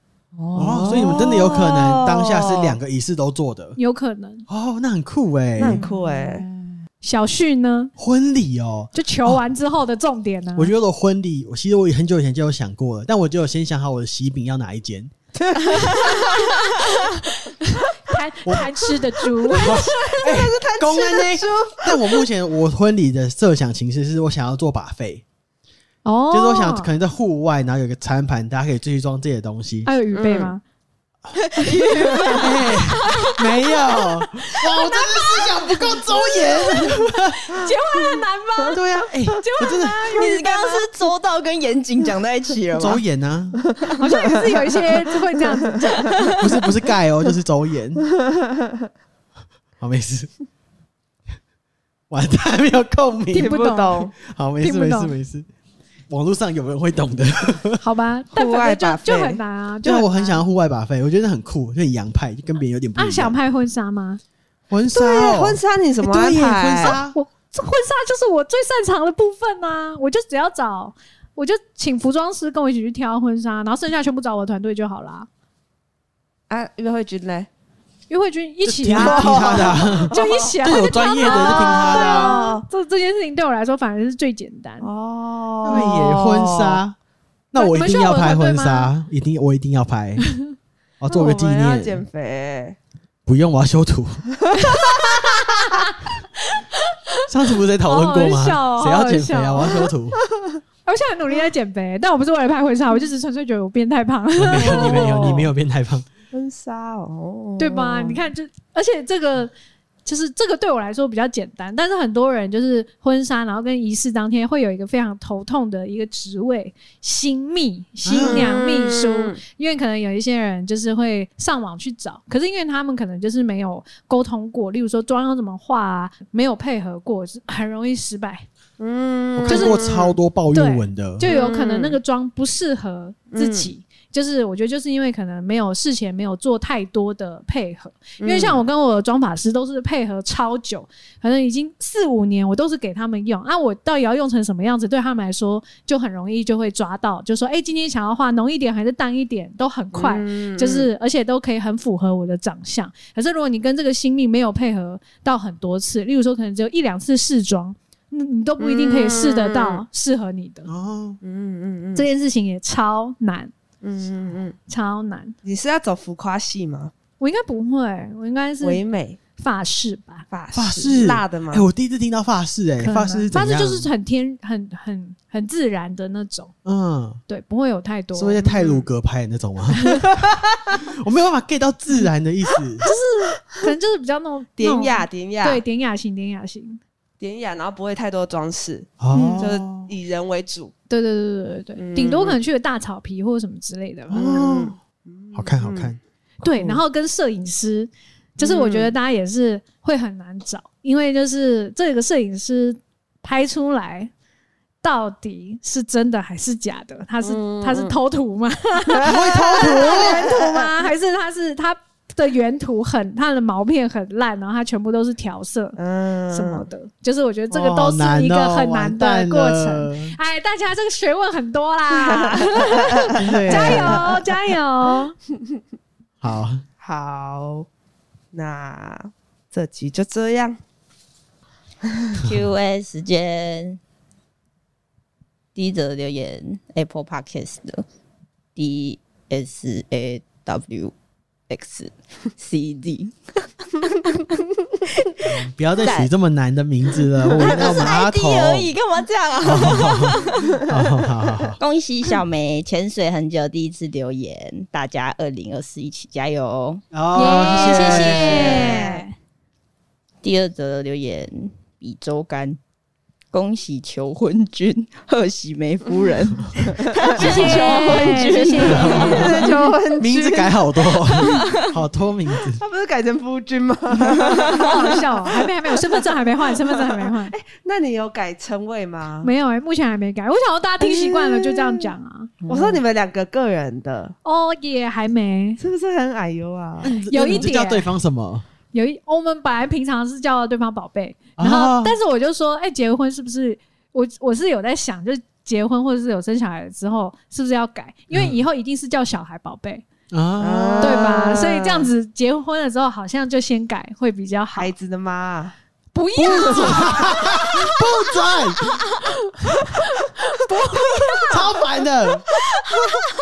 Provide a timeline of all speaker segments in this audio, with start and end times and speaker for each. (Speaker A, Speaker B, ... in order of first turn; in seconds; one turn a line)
Speaker A: 0.4-1.2
Speaker B: 0.5-3.8
Speaker C: 0.6-2.8
Speaker D: 3.8-4.5
Speaker B: 4.5-5.8
Speaker C: 5.6-6.5
Speaker A: 5.7-6.8
Speaker D: 7.0-7.9
Speaker B: 8.0-9.4
Speaker D: 8.9-10.7
Speaker B: 10.6-15.1
Speaker C: 15.5-16.3
Speaker D: 15.9-20.3
Speaker B: 18.5-18.7
Speaker B: 19.5-25.2
Speaker C: 19.7-22.3
Speaker D: 26.1-26.9
Speaker B: 26.3-29.9
Speaker D: 29.9-30.6
Speaker C: 30.1-30.5
Speaker A: 31.4-32.5
Speaker D: 31.7-38.8
Speaker C: 31.9-32.4
Speaker B: 32.4-37.6
Speaker B: 38.7-40.1
Speaker D: 39.3-40.9
Speaker A: 40.1-43.0
Speaker B: 42.8-43.6
Speaker D: 44.0-46.3
Speaker C: 44.5-45.1
Speaker B: 46.4-48.1
Speaker B: 49.8-50.3
Speaker B: 52.1-53.6
Speaker D: 53.3-55.2
Speaker C: 53.4-54.1
Speaker B: 54.2-55.5
Speaker B: 56.1-57.8
Speaker D: 57.8-60.4
Speaker C: 58.3-59.4
Speaker B: 59.8-63.3
Speaker D: 63.0-64.2
Speaker B: 64.7-67.2
Speaker C: 64.9-67.0
Speaker D: 66.8-75.3
Speaker C: 76.5-77.5
Speaker D: 78.1-84.9
Speaker B: 78.7-82.4
Speaker C: 79.0-82.7
Speaker C: 84.8-86.8
Speaker B: 85.6-87.0
Speaker B: 87.5-90.3
Speaker D: 87.6-88.9
Speaker B: 91.0-92.0
Speaker C: 91.1-92.8
Speaker B: 93.3-94.2
Speaker D: 94.6-95.9
Speaker D: 96.5-97.3
Speaker B: 97.3-100.2
Speaker D: 97.8-99.9
Speaker D: 100.9-105.4
Speaker B: 104.4-106.1
Speaker C: 104.6-105.5
Speaker C: 106.3-108.2
Speaker D: 107.6-109.5
Speaker D: 110.0-128.5
Speaker B: 118.0-118.5
Speaker C: 118.2-119.4
Speaker C: 128.8-130.2
Speaker B: 129.4-131.2
Speaker D: 129.5-129.8
Speaker D: 130.5-160.7
Speaker C: 131.2-132.0
Speaker C: 133.3-133.7
Speaker C: 138.2-138.6
Speaker C: 149.9-150.9
Speaker C: 158.6-159.8
Speaker B: 160.7-161.2
Speaker C: 161.2-162.1
Speaker D: 161.9-163.5
Speaker C: 163.8-164.6
Speaker D: 164.7-165.3
Speaker C: 165.4-166.9
Speaker D: 167.2-168.8
Speaker C: 168.6-169.2
Speaker D: 169.4-170.2
Speaker C: 170.3-171.7
Speaker B: 170.5-173.9
Speaker D: 172.8-176.5
Speaker B: 176.7-177.2
Speaker D: 177.3-178.4
Speaker B: 178.2-180.1
Speaker C: 178.4-178.9
Speaker B: 180.9-182.9
Speaker D: 182.8-186.8
Speaker C: 184.6-185.6
Speaker C: 187.2-190.7
Speaker B: 189.0-189.9
Speaker D: 189.1-189.5
Speaker D: 190.9-194.5
Speaker C: 191.8-192.4
Speaker B: 194.1-194.8
Speaker C: 194.1-195.9
Speaker B: 195.3-196.0
Speaker D: 196.4-204.1
Speaker C: 196.6-196.8
Speaker C: 198.4-198.9
Speaker D: 204.8-215.8
Speaker C: 207.2-208.0
Speaker C: 208.9-210.7
Speaker B: 209.0-210.3
Speaker C: 215.8-216.7
Speaker D: 216.3-225.2
Speaker B: 217.5-220.2
Speaker C: 222.0-224.2
Speaker B: 223.2-224.1
Speaker B: 226.2-226.6
Speaker C: 226.8-227.7
Speaker C: 228.3-230.6
Speaker A: 232.2-233.8
Speaker A: 235.6-237.8
Speaker A: 238.6-240.9
Speaker A: 241.5-244.2
Speaker A: 245.2-246.1
Speaker B: 245.2-248.7
Speaker A: 247.3-250.6
Speaker C: 247.4-247.9
Speaker B: 249.4-251.6
Speaker A: 251.6-258.5
Speaker B: 256.9-258.9
Speaker D: 257.1-259.1
Speaker C: 258.1-259.1
Speaker A: 260.2-262.6
Speaker A: 263.3-269.7
Speaker C: 266.9-271.4
Speaker D: 267.2-269.4
Speaker B: 267.2-272.6
Speaker A: 271.2-271.5
Speaker C: 272.5-276.0
Speaker D: 274.5-277.4
Speaker C: 277.3-279.3
Speaker D: 279.2-282.3
Speaker C: 280.8-281.9
Speaker A: 282.4-282.8
Speaker C: 282.5-284.1
Speaker D: 284.2-285.6
Speaker C: 285.6-286.9
Speaker B: 286.8-288.4
Speaker D: 286.9-287.9
Speaker D: 288.7-299.9
Speaker B: 291.4-292.0
Speaker B: 298.1-298.4
Speaker B: 300.1-301.2
Speaker C: 300.4-301.9
Speaker D: 300.8-304.7
Speaker C: 304.6-305.6
Speaker D: 305.9-308.3
Speaker B: 306.2-308.8
Speaker D: 309.0-311.6
Speaker B: 311.2-312.3
Speaker D: 312.4-313.0